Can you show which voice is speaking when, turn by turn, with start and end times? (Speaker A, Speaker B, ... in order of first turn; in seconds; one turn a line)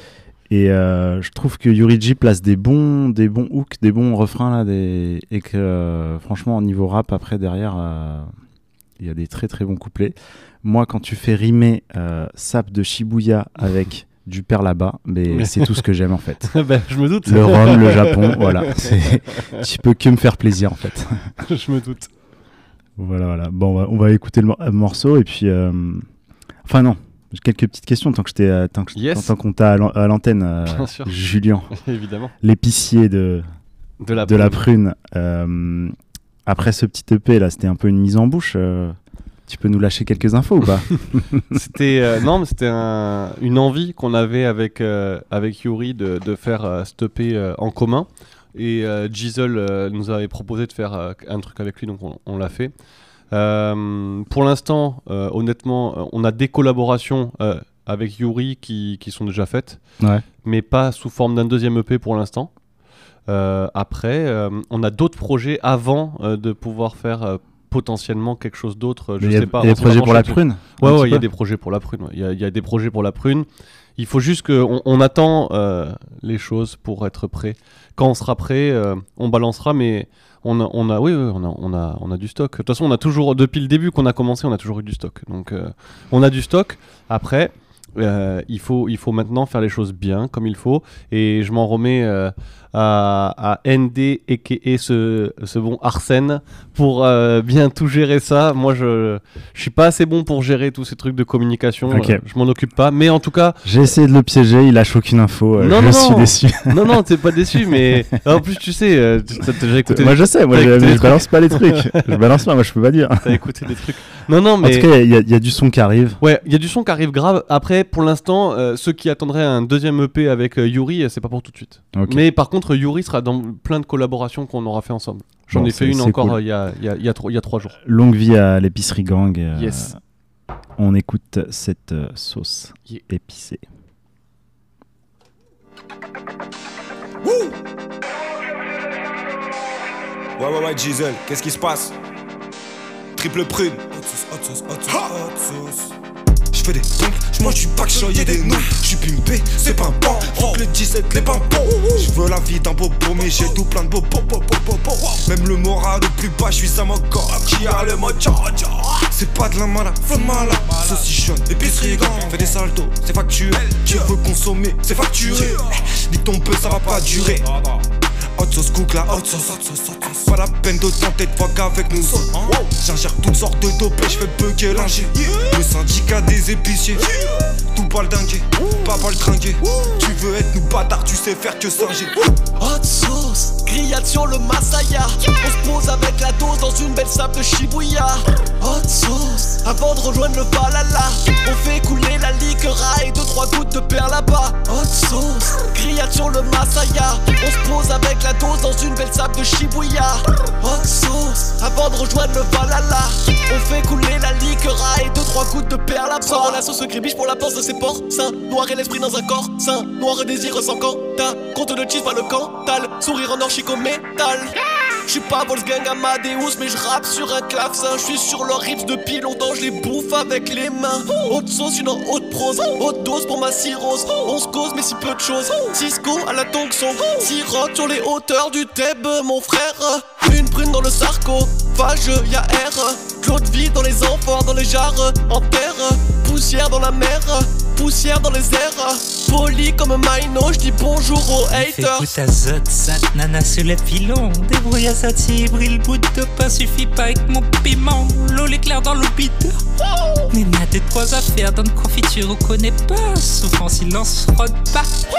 Speaker A: 0.5-8.3
Speaker A: 9.0-16.5
Speaker B: 15.3-15.8
Speaker B: 16.5-19.4
Speaker A: 17.2-21.2
Speaker B: 21.4-22.1
Speaker A: 23.0-26.1
Speaker A: 26.6-31.7
Speaker B: 29.0-29.3
Speaker B: 30.7-31.1
Speaker B: 31.7-32.3
Speaker A: 32.4-33.4
Speaker B: 34.0-34.6
Speaker A: 34.1-35.9
Speaker A: 36.5-41.4
Speaker B: 41.5-52.7
Speaker B: 53.3-59.8
Speaker A: 60.0-60.2
Speaker B: 60.4-62.5
Speaker B: 63.3-73.5
Speaker A: 69.2-71.2
Speaker B: 74.0-103.6
Speaker A: 101.9-102.2
Speaker A: 103.6-106.8
Speaker B: 105.6-112.2
Speaker A: 109.9-113.4
Speaker B: 113.2-114.9
Speaker A: 114.6-116.2
Speaker B: 116.2-127.8
Speaker A: 121.9-122.2
Speaker A: 125.5-126.4
Speaker A: 127.8-130.0
Speaker B: 129.6-129.9
Speaker A: 130.8-133.6
Speaker C: 140.4-141.9
Speaker C: 143.2-145.9
Speaker C: 146.5-167.5
Speaker C: 168.4-177.1
Speaker C: 177.7-182.3
Speaker D: 182.6-214.6
Speaker D: 215.1-242.1
Speaker E: 241.4-249.6
Speaker E: 250.3-254.9